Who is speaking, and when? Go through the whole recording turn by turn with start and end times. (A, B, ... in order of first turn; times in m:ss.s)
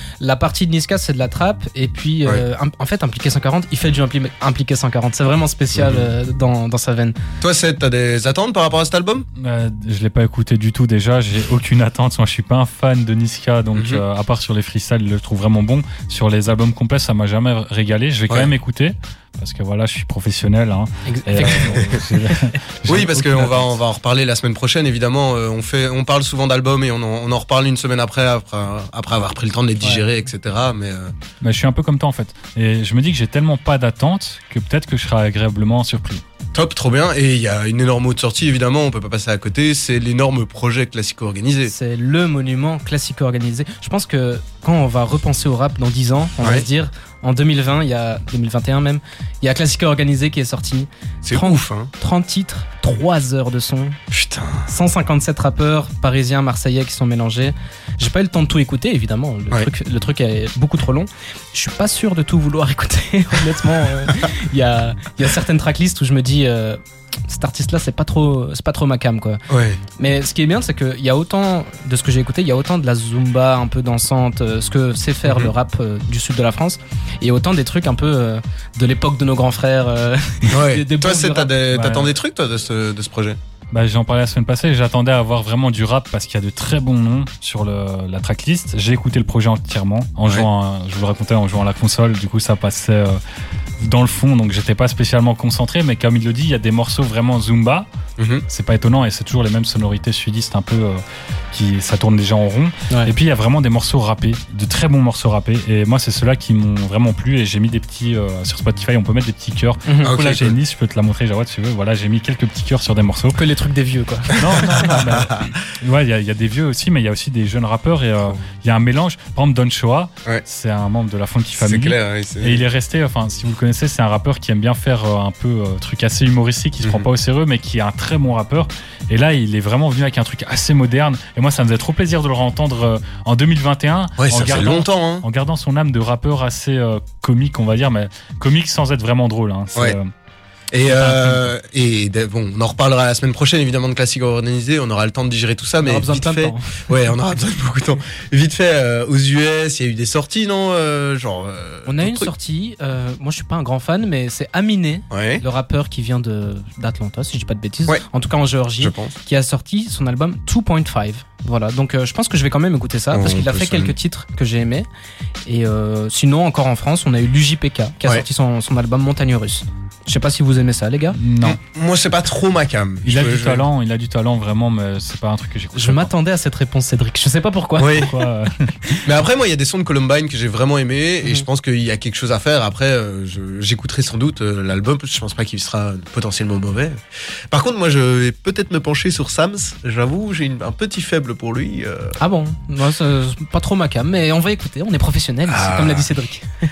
0:00.2-0:07.2 A
0:05.8-0:06.1 B
0:07.4-0:09.3 B
0:09.4-0:23.7 C
0:13.7-0:14.0 B
0:21.1-0:22.0 A
0:21.4-0:21.9 B
0:22.9-0:31.1 B
0:31.4-0:36.2 C
0:36.5-0:41.7 B
0:41.7-0:54.0 A
0:46.4-0:46.7 B
0:51.2-0:51.9 B
0:54.1-0:54.7 B
0:54.7-1:09.4 A
1:09.5-1:09.8 B
1:10.0-1:21.5 A
1:15.2-1:15.5 B
1:20.5-1:23.4 B
1:21.7-1:22.1 C
1:23.7-1:33.2 C
1:33.8-1:37.9 C
1:38.2-1:38.4 B
1:38.5-1:41.0 C
1:41.5-1:53.4 C
1:49.8-1:50.1 A
1:50.0-1:50.6 B
1:53.3-1:54.5 A
1:54.3-2:20.1 C
1:54.4-1:55.5 B
2:01.6-2:02.6 B
2:14.2-2:15.2 B
2:20.7-2:32.3 B
2:20.9-2:21.5 C
2:25.8-2:26.8 A
2:31.9-2:44.9 A
2:35.1-2:35.4 B
2:38.8-2:39.2 B
2:43.1-2:44.0 B
2:45.5-2:51.2 A
2:51.2-2:51.6 C
2:51.4-2:53.7 B
2:53.0-2:56.1 C
2:55.7-2:58.3 A
2:57.8-2:58.1 B
2:58.0-2:59.0 C
2:59.0-3:07.0 B
3:07.5-3:12.2 B
3:12.2-3:16.4 A
3:15.5-3:16.1 B